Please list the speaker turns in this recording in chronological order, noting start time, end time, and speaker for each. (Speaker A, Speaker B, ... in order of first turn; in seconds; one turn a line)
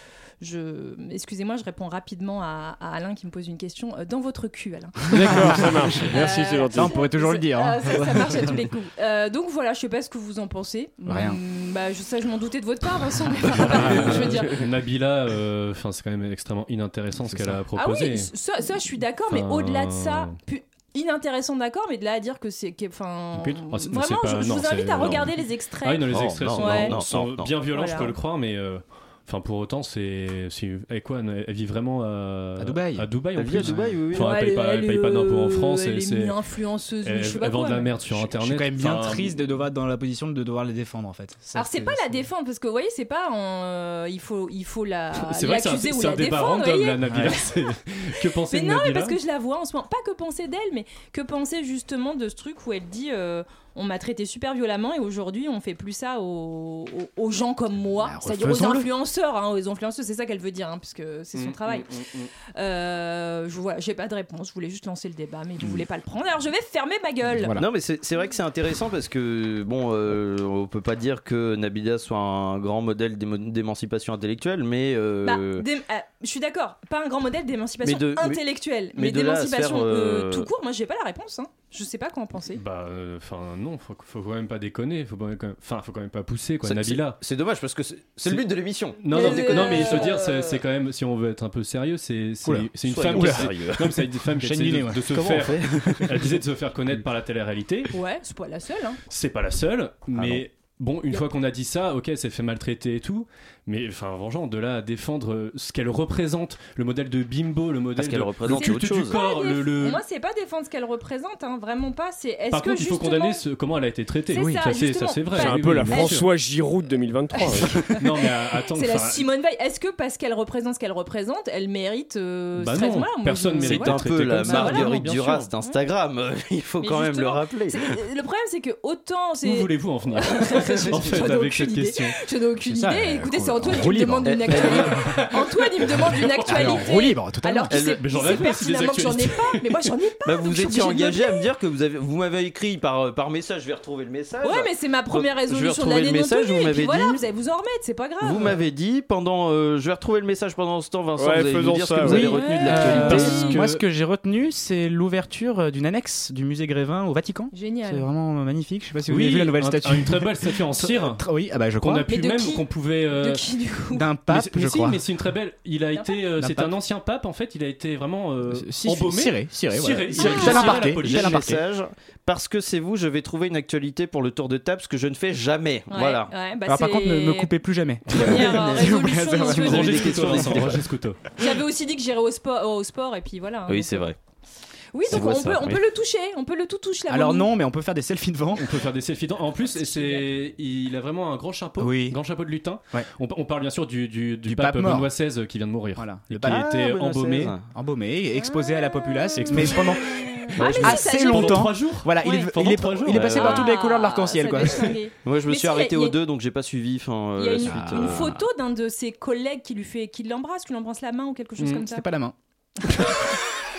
Speaker A: 0.4-14.6
Speaker B: 5.1-7.0
Speaker C: 6.7-8.6
Speaker C: 11.1-11.4
Speaker D: 13.5-18.3
Speaker C: 13.6-14.4
Speaker C: 17.2-17.6
Speaker A: 17.8-27.0
Speaker D: 19.3-20.4
Speaker D: 23.4-36.4
Speaker E: 26.1-27.5
Speaker A: 27.7-28.2
Speaker C: 32.6-34.0
Speaker E: 33.4-34.3
Speaker A: 34.1-38.0
Speaker D: 37.0-39.4
Speaker C: 38.3-42.3
Speaker A: 41.5-47.4
Speaker D: 45.2-49.2
Speaker C: 47.1-47.4
Speaker A: 48.5-61.9
Speaker C: 58.0-58.9
Speaker D: 61.4-62.3
Speaker A: 62.6-67.6
Speaker C: 67.3-67.7
Speaker E: 67.6-75.7
Speaker A: 75.2-82.6
Speaker E: 77.8-78.4
Speaker E: 78.9-80.5
Speaker D: 82.5-87.2
Speaker E: 86.6-90.1
Speaker D: 89.0-97.9
Speaker A: 89.1-90.6
Speaker C: 92.4-93.5
Speaker E: 92.9-94.0
Speaker C: 94.3-95.2
Speaker E: 95.1-96.2
Speaker A: 97.9-99.0
Speaker D: 99.1-110.0
Speaker E: 100.2-100.4
Speaker E: 108.0-109.2
Speaker A: 108.5-113.4
Speaker D: 112.5-116.3
Speaker A: 114.3-116.2
Speaker C: 114.3-114.6
Speaker B: 115.4-117.8
Speaker A: 117.4-125.1
Speaker D: 117.8-119.2
Speaker D: 122.6-125.5
Speaker E: 123.6-128.0
Speaker A: 126.8-141.5
Speaker D: 129.4-132.2
Speaker C: 132.7-134.8
Speaker E: 134.2-134.9
Speaker D: 134.7-136.9
Speaker C: 136.5-137.8
Speaker D: 137.7-139.8
Speaker E: 140.2-147.2
Speaker A: 144.4-148.6
Speaker E: 148.2-153.4
Speaker B: 151.2-152.3
Speaker C: 152.0-162.1
Speaker A: 152.2-153.6
Speaker D: 152.8-153.8
Speaker A: 157.5-158.1
Speaker D: 159.1-161.2
Speaker D: 161.8-163.4
Speaker A: 162.1-164.1
Speaker C: 163.9-165.0
Speaker D: 164.3-171.5
Speaker A: 165.9-166.2
Speaker C: 166.4-166.8
Speaker C: 168.5-171.6
Speaker A: 170.1-170.9
Speaker E: 171.0-176.3
Speaker A: 175.9-177.5
Speaker C: 176.7-180.7
Speaker A: 178.1-180.3
Speaker E: 178.1-180.8
Speaker D: 179.5-181.2
Speaker A: 181.4-184.1
Speaker E: 183.7-184.2
Speaker A: 184.9-187.5
Speaker E: 185.1-185.8
Speaker C: 187.1-188.7
Speaker D: 188.6-197.5
Speaker A: 189.8-190.2
Speaker C: 191.8-192.2
Speaker C: 194.5-195.1
Speaker C: 196.0-196.6
Speaker E: 196.5-197.7
Speaker C: 197.7-205.0
Speaker A: 198.4-202.6
Speaker D: 199.4-200.0
Speaker E: 200.6-200.9
Speaker D: 200.8-203.5
Speaker E: 203.2-203.5
Speaker A: 203.2-206.2
Speaker E: 205.2-208.3
Speaker A: 207.4-212.1
Speaker C: 207.7-208.4
Speaker C: 211.9-212.3